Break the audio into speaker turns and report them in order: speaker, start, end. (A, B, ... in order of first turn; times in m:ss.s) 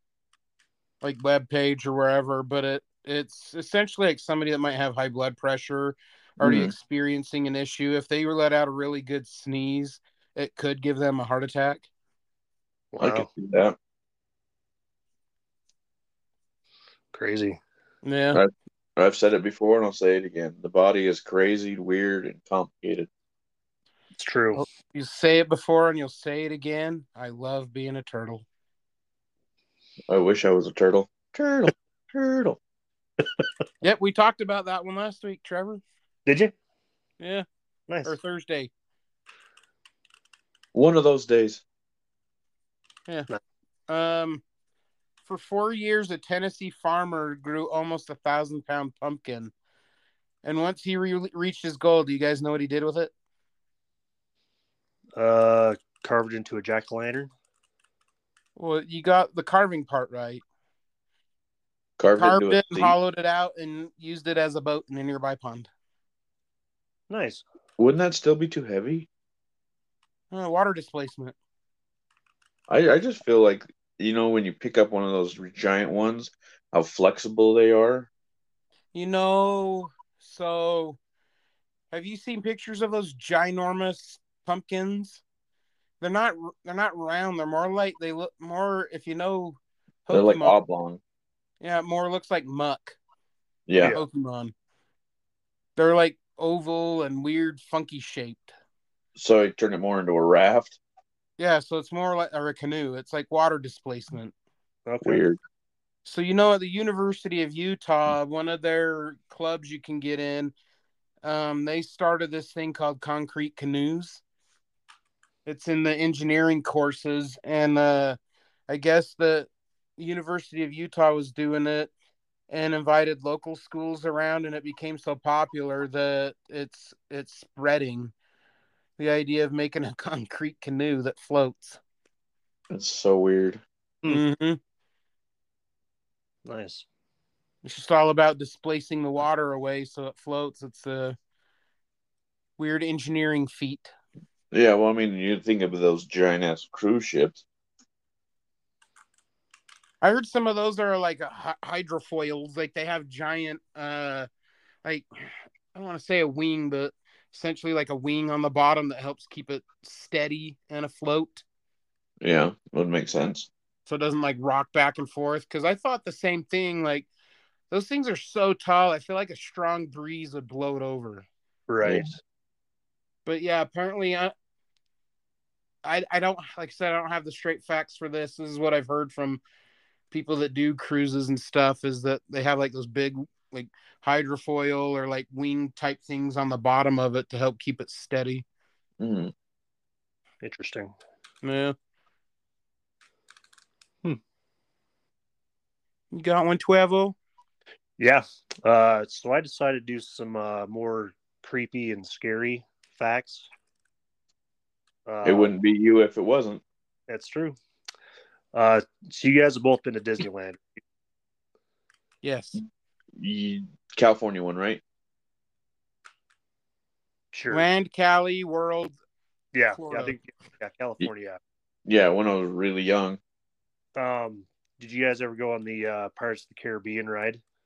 0:01.0-0:11.9 A
0:06.4-0:06.7 B
0:12.9-0:13.3 C
0:13.0-0:13.8 B
0:17.1-0:17.6 C
0:18.0-0:18.4 A
0:18.3-0:23.1 B
0:24.2-0:24.6 C
0:24.5-0:28.4 A
0:30.1-0:32.6 B
0:33.8-0:35.8 A
0:36.2-0:36.5 C
0:37.2-0:37.4 A
0:37.9-0:38.1 C
0:38.0-0:38.7 A
0:40.7-0:41.6 B
0:43.9-0:44.4 A
0:45.2-0:49.5 A
0:50.4-0:53.1 A
0:55.2-0:57.3 C
0:58.6-1:00.4 A
1:02.0-1:02.9 B
1:02.2-1:05.7 A
1:07.1-1:07.4 C
1:07.8-1:09.1 B
1:10.3-1:11.3 A
1:12.7-1:18.1 B
1:18.9-1:21.0 A
1:21.9-1:25.2 A
1:26.0-1:30.6 A
1:30.1-1:31.0 B
1:31.6-1:33.0 A
1:33.7-1:34.0 B
1:33.8-1:34.0 C
1:33.9-1:34.5 A
1:35.8-1:38.5 A
1:39.2-1:40.8 B
1:41.4-1:44.3 A
1:44.8-1:45.2 C
1:45.0-1:45.4 B
1:46.0-1:50.5 A
1:51.2-1:54.2 A
1:55.4-2:01.9 A
2:02.5-2:08.1 A
2:09.0-2:11.8 A
2:12.7-2:13.6 B
2:14.1-2:14.6 A
2:16.4-2:16.8 C
2:17.6-2:21.2 A
2:22.6-2:23.9 A
2:24.5-2:27.4 B
2:30.0-2:34.3 A
2:34.8-2:41.4 A
2:42.2-2:43.5 B
2:43.9-2:47.1 A
2:47.7-2:51.3 A
2:51.7-2:52.1 C
2:51.8-2:52.1 B
2:53.2-2:54.3 A
2:55.8-2:59.4 A
3:00.1-3:08.4 A
3:09.0-3:09.3 B
3:10.4-3:10.9 C
3:11.4-3:11.7 A
3:16.1-3:17.2 A
3:18.0-3:23.5 C
3:25.1-3:25.5 C
3:25.2-3:26.6 B
3:27.1-3:27.6 C
3:28.5-3:30.8 C
3:32.2-3:32.6 A
3:33.2-3:34.8 B
3:37.3-3:37.6 C
3:37.5-3:39.0 A
3:39.5-3:41.4 C
3:39.7-3:40.2 A
3:41.8-3:43.2 B
3:44.0-3:47.4 C